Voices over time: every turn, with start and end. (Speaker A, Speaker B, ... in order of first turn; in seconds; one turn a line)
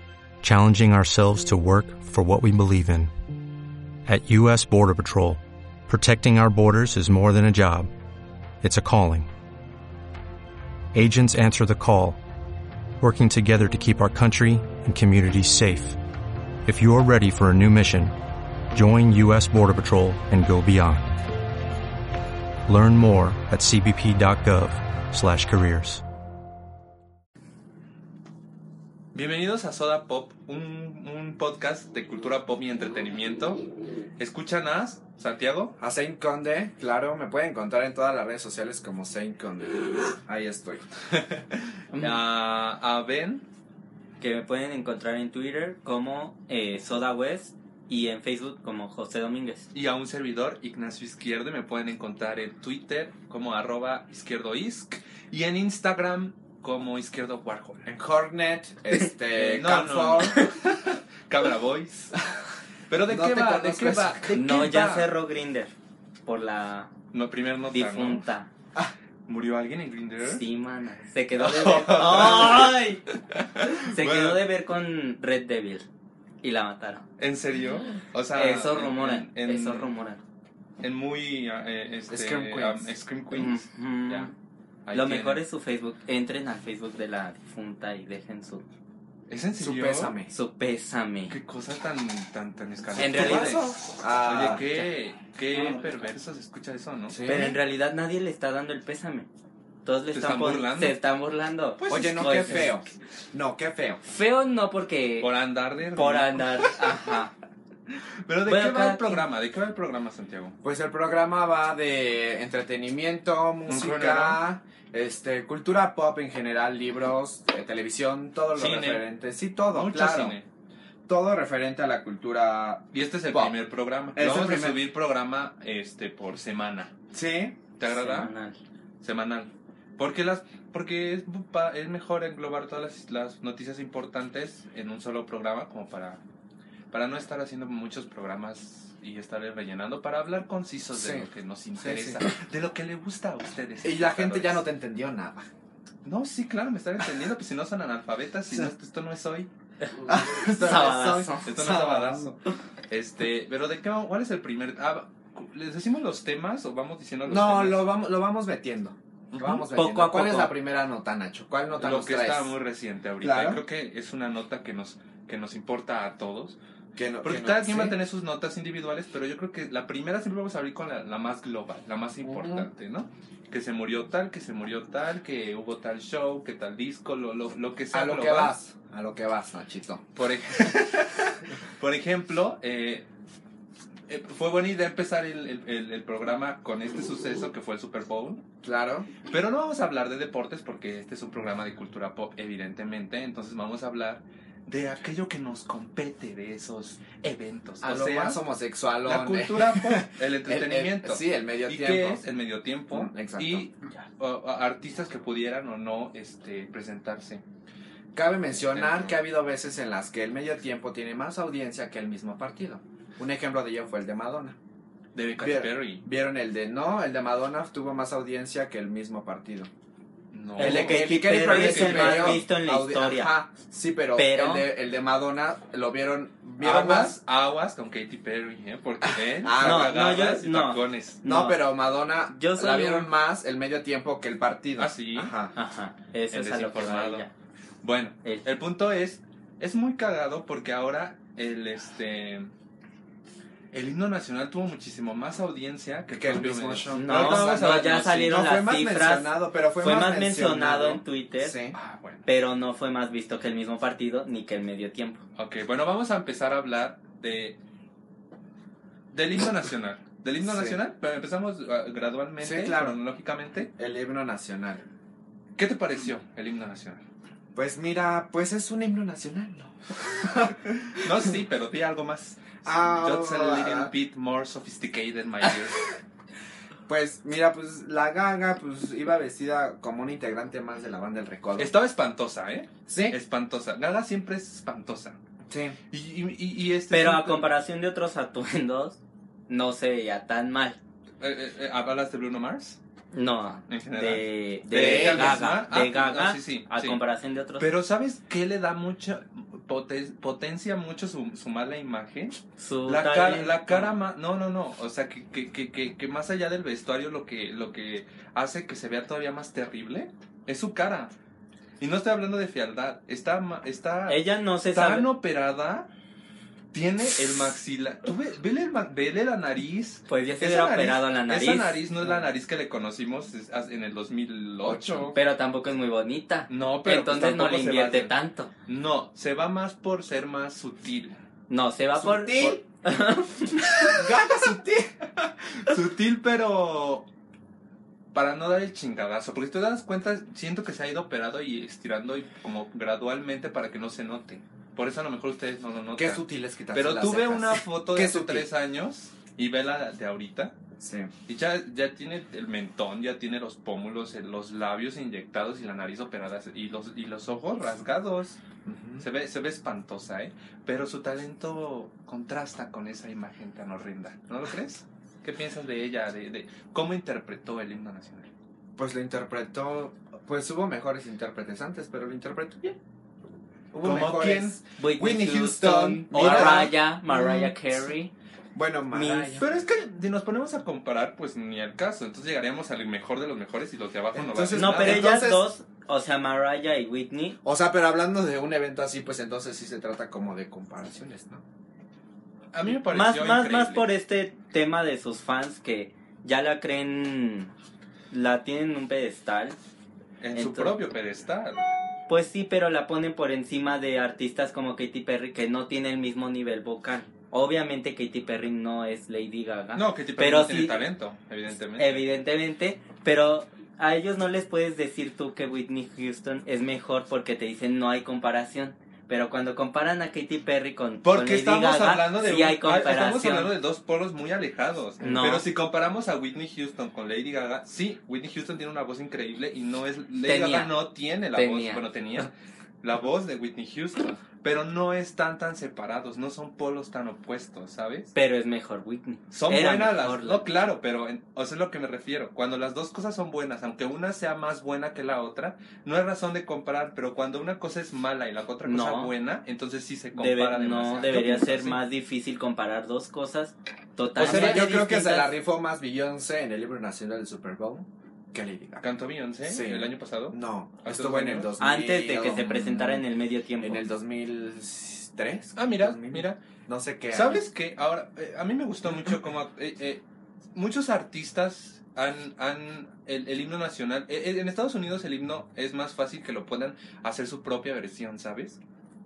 Speaker A: 0.4-3.1
Speaker A: 4.1-7.9
Speaker A: 8.6-9.3
Speaker A: 10.9-12.2
Speaker A: 13.0-16.0
Speaker A: 16.6-18.1
Speaker A: 18.7-21.2
Speaker A: 22.7-26.0
Speaker B: 29.1-33.6
Speaker B: 34.2-35.8
Speaker C: 35.8-40.9
Speaker B: 41.9-43.5
Speaker D: 44.2-49.7
Speaker B: 49.7-57.9
Speaker C: 57.9-60.5
Speaker B: 59.3-62.2
Speaker B: 62.9-65.1
Speaker C: 63.1-64.4
Speaker D: 64.3-65.7
Speaker D: 66.2-66.9
Speaker B: 67.1-68.3
Speaker D: 67.7-68.5
Speaker B: 69.3-70.4
Speaker D: 70.2-73.0
Speaker B: 71.3-74.4
Speaker D: 73.6-75.9
Speaker D: 76.4-77.0
Speaker B: 77.2-79.9
Speaker D: 78.3-80.2
Speaker B: 80.8-84.3
Speaker C: 82.1-82.9
Speaker D: 83.3-84.3
Speaker B: 84.9-85.4
Speaker D: 84.9-88.7
Speaker B: 89.3-90.2
Speaker C: 89.6-90.3
Speaker D: 90.3-91.4
Speaker B: 91.3-93.7
Speaker C: 92.9-94.7
Speaker D: 93.0-93.6
Speaker B: 94.2-97.2
Speaker D: 95.5-95.8
Speaker C: 97.1-97.6
Speaker D: 97.3-99.3
Speaker D: 99.8-102.8
Speaker B: 100.1-101.0
Speaker B: 101.8-102.8
Speaker C: 101.9-104.0
Speaker D: 104.1-105.3
Speaker B: 105.2-107.0
Speaker D: 105.9-107.3
Speaker B: 108.2-110.5
Speaker D: 108.5-109.3
Speaker C: 110.6-120.4
Speaker B: 113.7-114.4
Speaker B: 118.5-119.0
Speaker B: 119.7-120.5
Speaker C: 121.1-123.6
Speaker B: 122.9-126.9
Speaker C: 124.2-124.8
Speaker C: 127.1-127.6
Speaker B: 127.8-128.3
Speaker D: 127.8-128.6
Speaker B: 129.0-136.2
Speaker B: 136.9-144.7
Speaker C: 140.9-142.3
Speaker C: 143.8-145.5
Speaker B: 146.1-149.5
Speaker D: 149.9-151.4
Speaker C: 150.1-152.3
Speaker B: 151.4-152.4
Speaker B: 152.9-157.9
Speaker C: 157.3-162.5
Speaker B: 159.3-159.7
Speaker D: 159.7-160.6
Speaker B: 161.8-166.6
Speaker C: 163.2-163.6
Speaker C: 167.0-168.0
Speaker B: 167.2-178.6
Speaker C: 172.2-172.7
Speaker C: 177.9-180.1
Speaker B: 180.2-183.1
Speaker B: 184.1-188.4
Speaker C: 188.6-189.1
Speaker B: 189.3-198.4
Speaker C: 197.8-202.2
Speaker B: 199.1-207.4
Speaker C: 202.9-203.7
Speaker C: 208.2-214.6
Speaker B: 208.5-209.2
Speaker B: 215.2-216.0
Speaker C: 215.4-219.7
Speaker B: 220.3-222.4
Speaker D: 220.6-223.3
Speaker C: 220.6-227.2
Speaker D: 224.2-224.7
Speaker B: 226.6-231.2
Speaker C: 229.4-230.0
Speaker D: 229.6-233.1
Speaker C: 231.2-235.5
Speaker B: 234.8-235.3
Speaker D: 235.6-237.3
Speaker B: 236.3-237.3
Speaker B: 237.8-242.5
Speaker D: 238.2-238.5
Speaker B: 243.7-248.4
Speaker C: 246.1-251.8
Speaker D: 246.9-251.6
Speaker B: 251.7-252.3
Speaker D: 252.3-255.2
Speaker B: 255.4-257.6
Speaker B: 259.1-263.7
Speaker C: 260.4-260.8
Speaker C: 262.4-263.0
Speaker C: 263.8-264.9
Speaker B: 265.6-267.0
Speaker C: 267.6-271.3
Speaker B: 270.9-275.9
Speaker C: 272.6-273.9
Speaker C: 276.9-281.7
Speaker B: 281.6-285.2
Speaker C: 282.9-283.2
Speaker C: 285.5-285.8
Speaker B: 285.9-287.5
Speaker D: 286.9-290.8
Speaker B: 291.2-292.8
Speaker D: 293.1-297.7
Speaker B: 293.7-297.0
Speaker C: 294.7-295.4
Speaker B: 297.6-311.1
Speaker D: 302.6-303.9
Speaker B: 311.8-315.9
Speaker D: 314.1-315.1
Speaker B: 316.7-325.2
Speaker D: 320.1-321.8
Speaker C: 324.6-325.2
Speaker D: 325.1-328.5
Speaker B: 326.5-328.1
Speaker B: 328.7-331.2
Speaker D: 331.5-333.9
Speaker C: 332.0-332.6
Speaker C: 333.8-335.1
Speaker B: 335.5-337.1
Speaker B: 338.1-346.2
Speaker C: 346.0-348.5
Speaker B: 346.7-350.6
Speaker C: 350.8-351.1
Speaker B: 351.3-358.4
Speaker C: 358.6-359.1
Speaker B: 359.0-368.3
Speaker C: 368.8-372.8
Speaker C: 373.7-377.8
Speaker B: 373.8-374.6
Speaker D: 374.8-378.1
Speaker B: 376.1-376.6
Speaker C: 378.5-379.6
Speaker D: 378.9-379.4
Speaker B: 379.4-385.1
Speaker C: 384.1-385.5
Speaker D: 384.5-387.4
Speaker C: 387.4-391.4
Speaker B: 392.5-393.8
Speaker D: 392.9-397.5
Speaker D: 398.1-399.6
Speaker B: 400.2-401.7
Speaker D: 400.3-400.8
Speaker D: 402.1-410.8
Speaker B: 409.8-412.0
Speaker D: 411.8-423.5
Speaker B: 421.0-432.3
Speaker C: 425.0-425.3
Speaker D: 425.0-425.5
Speaker D: 430.3-430.7
Speaker D: 431.4-432.3
Speaker B: 432.8-438.1
Speaker D: 438.1-440.5
Speaker B: 439.3-451.8
Speaker D: 448.6-449.1
Speaker D: 450.1-455.3
Speaker B: 454.2-454.7
Speaker C: 454.2-458.9
Speaker B: 458.8-461.5
Speaker C: 459.4-463.1
Speaker D: 461.6-463.8
Speaker C: 463.6-467.4
Speaker B: 465.6-466.4
Speaker B: 467.1-470.0
Speaker B: 470.6-478.6